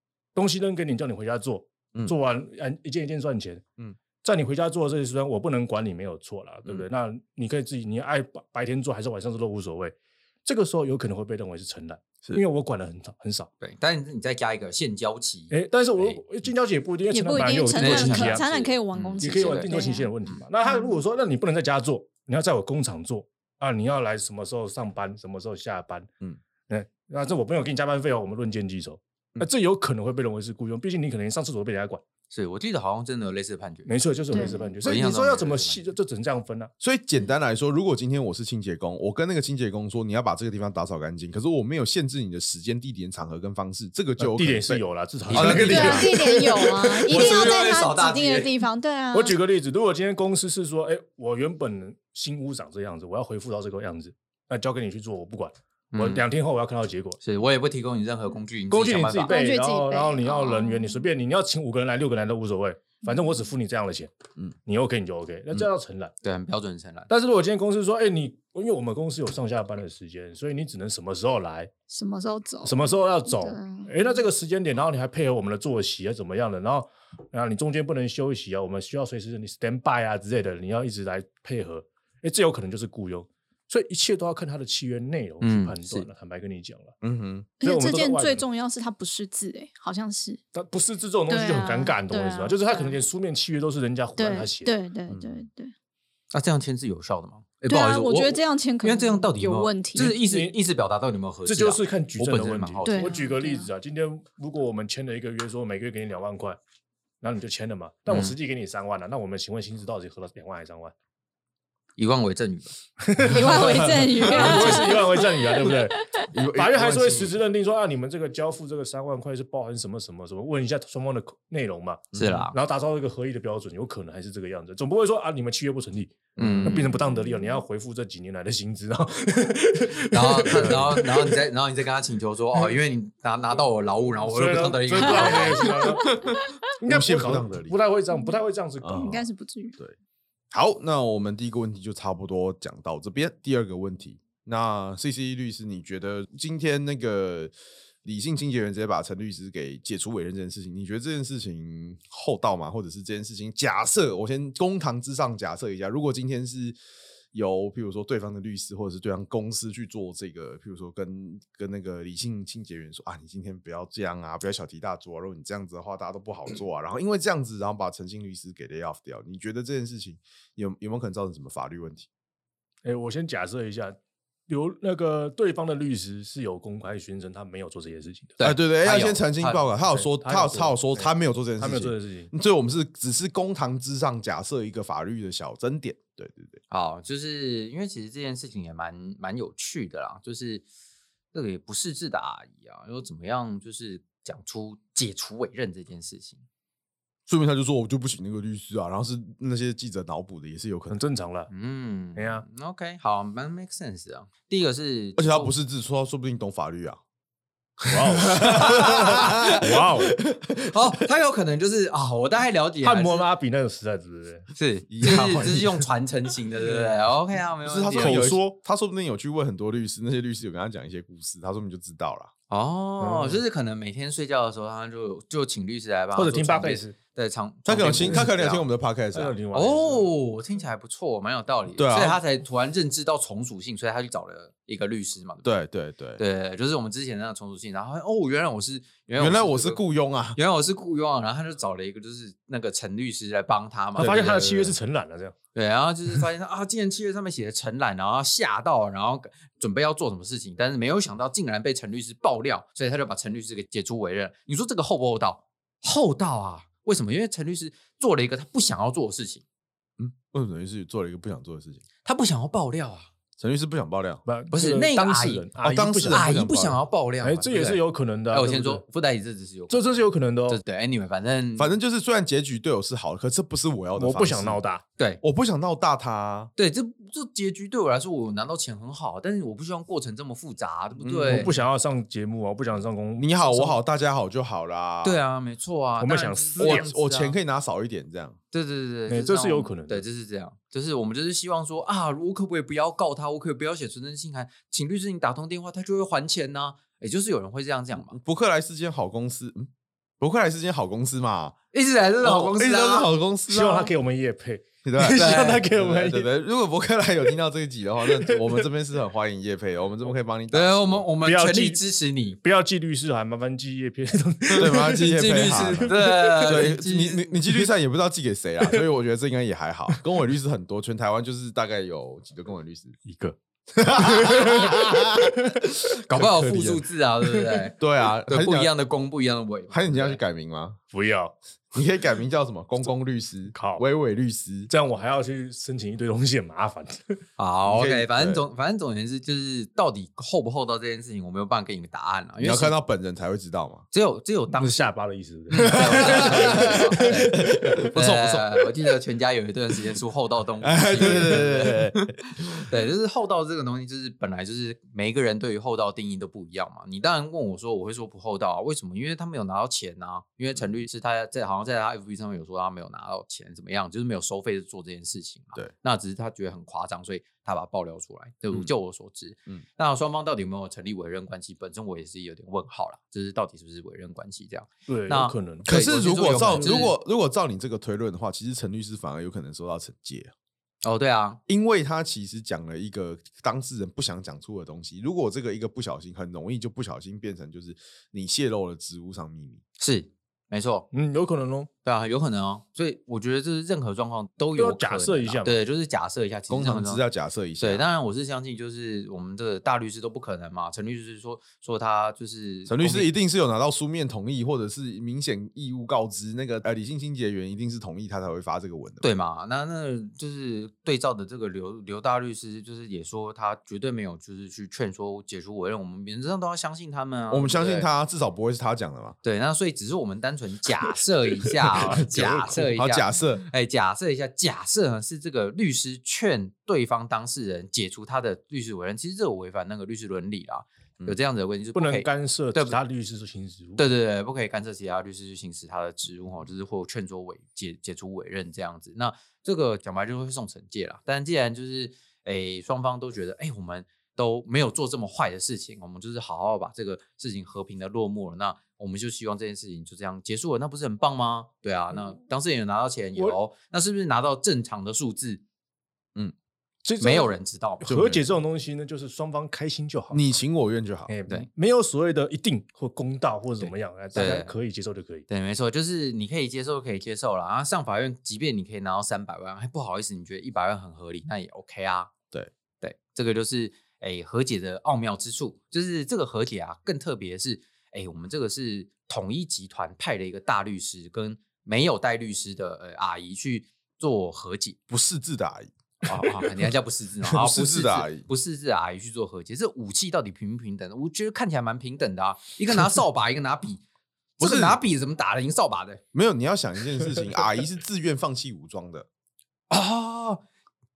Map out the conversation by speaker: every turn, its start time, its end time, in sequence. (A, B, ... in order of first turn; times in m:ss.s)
0:00.4-0:03.6 A
0:04.2-0:13.5 A
0:13.6-0:16.2 B
0:15.5-0:18.5 A
0:17.1-0:20.1 C
0:17.8-0:20.4 B
0:19.2-0:26.1 A
0:26.7-0:32.0 A
0:32.3-0:35.9 B
0:33.9-0:36.7 A
0:34.3-0:34.7 C
0:36.8-0:47.2 D
0:44.2-0:46.2 A
0:45.3-0:46.1 B
0:45.6-0:49.3 C
0:47.0-0:48.6 B
0:49.1-0:57.2 A
0:55.9-0:56.2 B
0:57.2-0:59.4 B
0:58.7-1:04.1 A
0:59.2-1:01.0 C
1:04.6-1:06.1 A
1:06.2-1:07.1 B
1:07.1-1:11.7 A
1:11.9-1:14.0 C
1:12.6-1:27.0 A
1:25.4-1:26.1 B
1:27.0-1:27.5 D
1:27.6-1:30.4 C
1:27.6-1:28.5 A
1:30.5-1:34.8 A
1:31.3-1:33.0 C
1:34.2-1:35.7 C
1:35.1-1:35.5 D
1:36.3-1:43.1 B
1:37.7-1:40.1 C
1:40.0-1:40.6 A
1:41.4-1:46.6 A
1:42.8-1:43.7 C
1:47.2-1:50.9 A
1:48.1-1:48.4 B
1:52.0-1:52.7 B
1:53.0-2:11.4 A
1:53.3-1:56.2 C
1:53.6-1:54.9 D
1:56.3-1:57.4 D
2:02.1-2:02.5 D
2:02.1-2:02.6 B
2:06.4-2:06.9 B
2:06.4-2:07.2 D
2:10.1-2:16.0 B
2:14.2-2:16.2 A
2:15.0-2:15.8 C
2:16.1-2:17.8 D
2:16.8-2:19.2 A
2:18.8-2:19.2 D
2:19.0-2:19.8 C
2:20.5-2:27.5 D
2:28.0-2:36.8 D
2:37.3-2:52.1 D
2:52.8-2:54.0 A
2:54.5-2:58.4 A
2:58.4-2:59.8 B
2:58.4-3:06.6 D
2:59.9-3:02.3 A
3:06.7-3:10.6 B
3:11.3-3:16.4 B
3:17.3-3:21.0 D
3:20.9-3:21.5 A
3:21.5-3:25.5 B
3:22.2-3:22.4 A
3:25.2-3:27.0 D
3:27.8-3:30.7 D
3:27.9-3:30.2 A
3:28.5-3:29.4 B
3:30.7-3:33.3 B
3:32.8-3:34.5 A
3:34.6-3:38.3 B
3:34.9-3:35.9 D
3:37.6-3:42.3 D
3:38.0-3:38.6 A
3:42.5-3:48.7 B
3:43.0-3:43.4 A
3:46.2-3:47.0 A
3:47.6-3:49.4 D
3:48.0-3:48.3 A
3:49.1-3:50.1 A
3:49.5-3:55.6 B
3:51.8-3:52.2 D
3:55.4-3:56.2 D
3:56.2-4:04.7 B
3:59.2-4:00.4 D
4:04.0-4:04.7 D
4:04.0-4:05.4 A
4:05.5-4:19.4 B
4:20.0-4:21.8 D
4:22.0-4:23.1 B
4:23.4-4:24.2 D
4:24.2-4:26.4 A
4:24.5-4:31.8 B
4:25.6-4:26.8 D
4:27.2-4:28.8 A
4:29.7-4:30.6 A
4:31.6-4:34.6 D
4:33.9-4:34.8 A
4:35.2-4:36.5 D
4:36.6-4:41.6 B
4:41.0-4:41.6 D
4:41.3-4:43.7 A
4:43.2-4:45.2 D
4:45.0-4:47.4 B
4:46.0-4:46.9 A
4:46.6-4:48.4 D
4:48.5-4:58.2 B
4:49.1-4:50.1 A
4:58.0-4:59.7 D
5:00.2-5:01.6 D
5:01.7-5:03.1 B
5:02.2-5:03.9 D
5:03.5-5:06.3 A
5:04.8-5:11.1 D
5:05.1-5:05.7 B
5:08.2-5:08.5 A
5:10.5-5:12.4 B
5:11.2-5:11.8 A
5:12.4-5:16.6 A
5:14.5-5:23.0 D
5:14.8-5:17.4 B
5:23.0-5:23.4 A
5:23.8-5:26.9 D
5:23.9-5:25.6 A
5:26.1-5:30.2 B
5:27.8-5:28.7 D
5:29.7-5:30.8 D
5:30.9-5:31.4 A
5:31.8-5:34.7 D
5:33.5-5:33.8 A
5:34.7-5:37.2 A
5:37.4-5:42.8 B
5:37.7-5:38.4 D
5:42.4-5:43.8 D
5:43.9-5:44.9 B
5:44.5-5:47.9 A
5:45.5-5:51.8 B
5:45.6-5:48.5 D
5:50.6-5:52.6 D
5:52.6-6:17.0 B
6:00.6-6:00.8 D
6:14.9-6:15.8 A
6:15.7-6:20.3 D
6:16.5-6:16.8 A
6:20.8-6:21.4 B
6:21.5-6:29.6 D
6:29.8-6:30.9 B
6:30.9-6:31.7 A
6:31.8-6:37.0 B
6:34.6-6:35.6 A
6:36.5-6:37.8 D
6:37.6-6:43.1 B
6:42.7-6:49.1 D
6:49.0-6:57.9 B
6:57.3-6:59.2 D
6:59.2-7:12.8 B
7:01.8-7:03.5 D
7:01.9-7:02.8 A
7:11.7-7:13.9 A
7:13.8-7:35.4 B
7:36.8-7:40.4 A
7:37.0-7:37.9 B
7:37.9-7:38.2 D
7:40.1-7:41.1 D
7:41.1-7:45.3 A
7:43.6-7:44.5 B
7:45.3-7:52.1 B
7:52.8-8:04.8 B
8:04.9-8:05.7 D
8:06.0-8:13.8 B
8:07.3-8:08.3 D
8:14.4-8:16.0 B
8:14.4-8:14.8 D
8:16.1-8:19.1 D
8:19.7-8:20.4 B